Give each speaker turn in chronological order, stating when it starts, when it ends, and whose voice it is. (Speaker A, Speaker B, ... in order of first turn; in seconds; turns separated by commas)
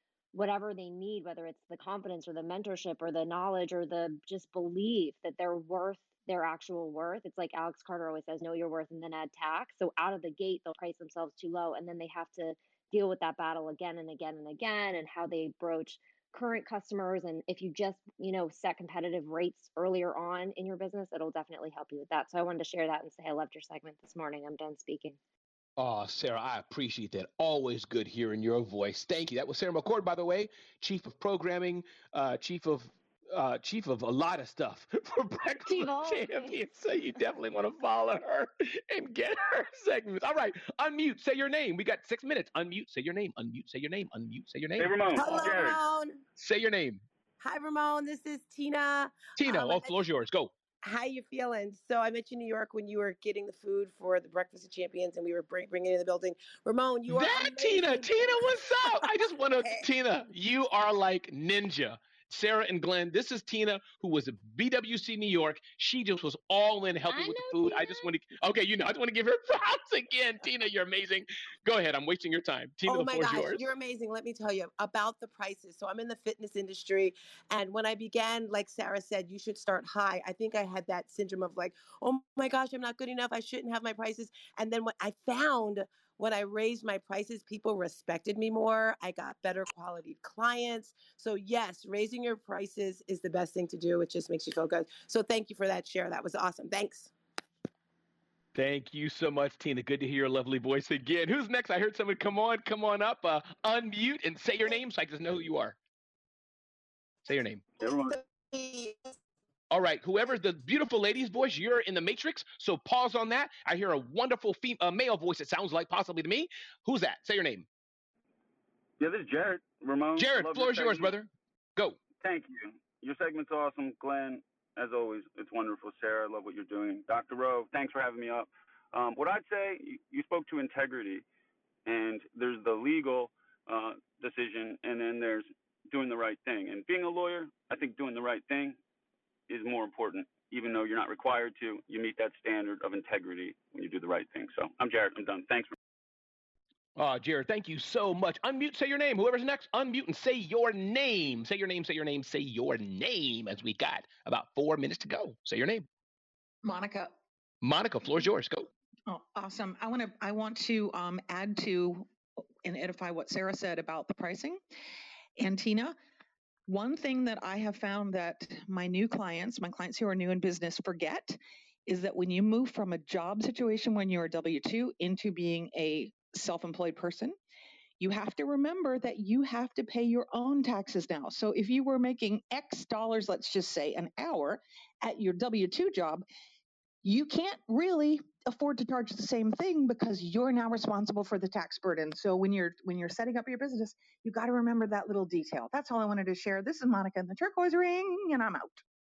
Speaker A: 0.3-25.2, Speaker B: 25.8-44.9, Speaker A: 35.5-36.6, Speaker C: 44.8-45.8, Speaker D: 45.1-46.2, Speaker B: 46.4-47.0, Speaker D: 47.4-50.0, Speaker B: 49.4-50.5, Speaker D: 50.8-59.8, Speaker B: 57.1-73.6, Speaker A: 67.0-68.2, Speaker D: 72.8-97.1, Speaker B: 98.5-105.8, Speaker B: 107.3-107.7, Speaker C: 107.8-108.2, Speaker D: 107.9-109.0, Speaker B: 109.7-117.7, Speaker C: 119.0-121.1, Speaker B: 120.2-122.0, Speaker C: 122.2-131.2, Speaker C: 131.8-138.8, Speaker C: 139.5-145.7, Speaker B: 146.9-155.8, Speaker E: 156.6-157.1, Speaker B: 157.6-158.7, Speaker E: 159.1-162.1, Speaker E: 162.6-164.6, Speaker E: 165.4-165.9, Speaker E: 166.7-177.3, Speaker E: 178.0-186.2, Speaker E: 187.0-198.8